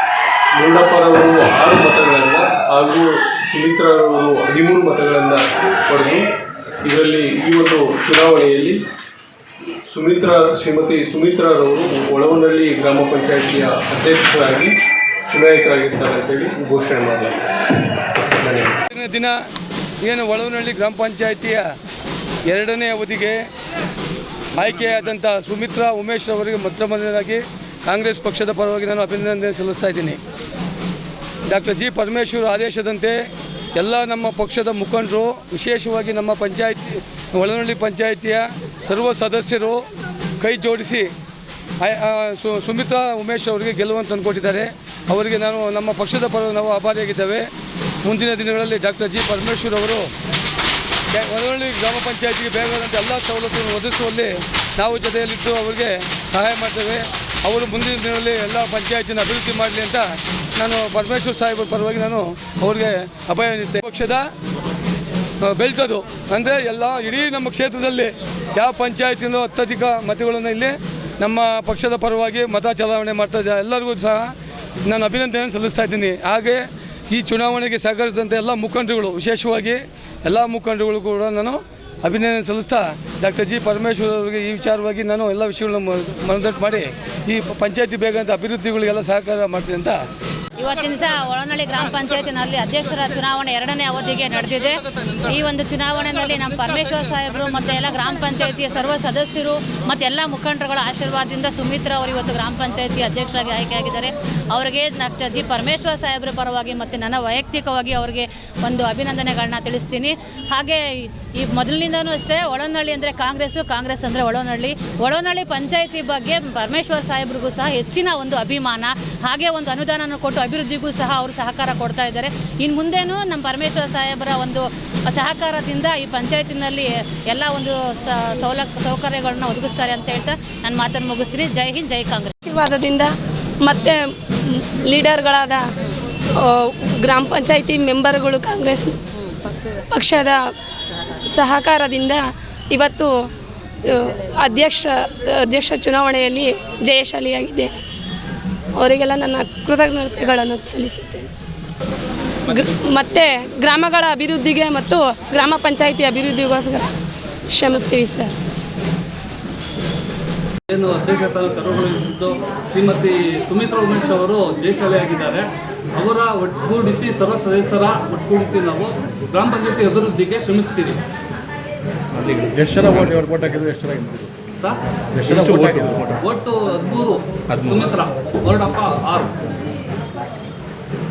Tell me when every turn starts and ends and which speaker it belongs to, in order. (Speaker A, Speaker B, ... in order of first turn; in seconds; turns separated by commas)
Speaker A: 0.6-6.2, Speaker A: 6.8-8.8, Speaker A: 9.9-14.7, Speaker A: 15.3-17.4, Speaker A: 18.2-18.8, Speaker B: 18.9-19.3, Speaker B: 20.0-21.7, Speaker B: 22.4-23.4, Speaker B: 24.6-30.2, Speaker B: 31.5-39.8, Speaker B: 40.4-41.1, Speaker B: 41.8-47.5, Speaker B: 48.0-50.1, Speaker B: 51.1-64.3, Speaker B: 65.4-74.3, Speaker B: 74.9-90.0, Speaker C: 90.6-132.3, Speaker D: 132.4-135.7, Speaker D: 136.3-139.0, Speaker D: 139.8-140.5, Speaker D: 141.3-143.3, Speaker D: 143.8-147.8, Speaker D: 148.7-151.2, Speaker D: 152.5-156.9, Speaker D: 157.5-158.3, Speaker E: 160.7-171.0, Speaker F: 172.6-174.2, Speaker E: 174.5-179.3, Speaker F: 175.2-176.2, Speaker F: 177.5-177.8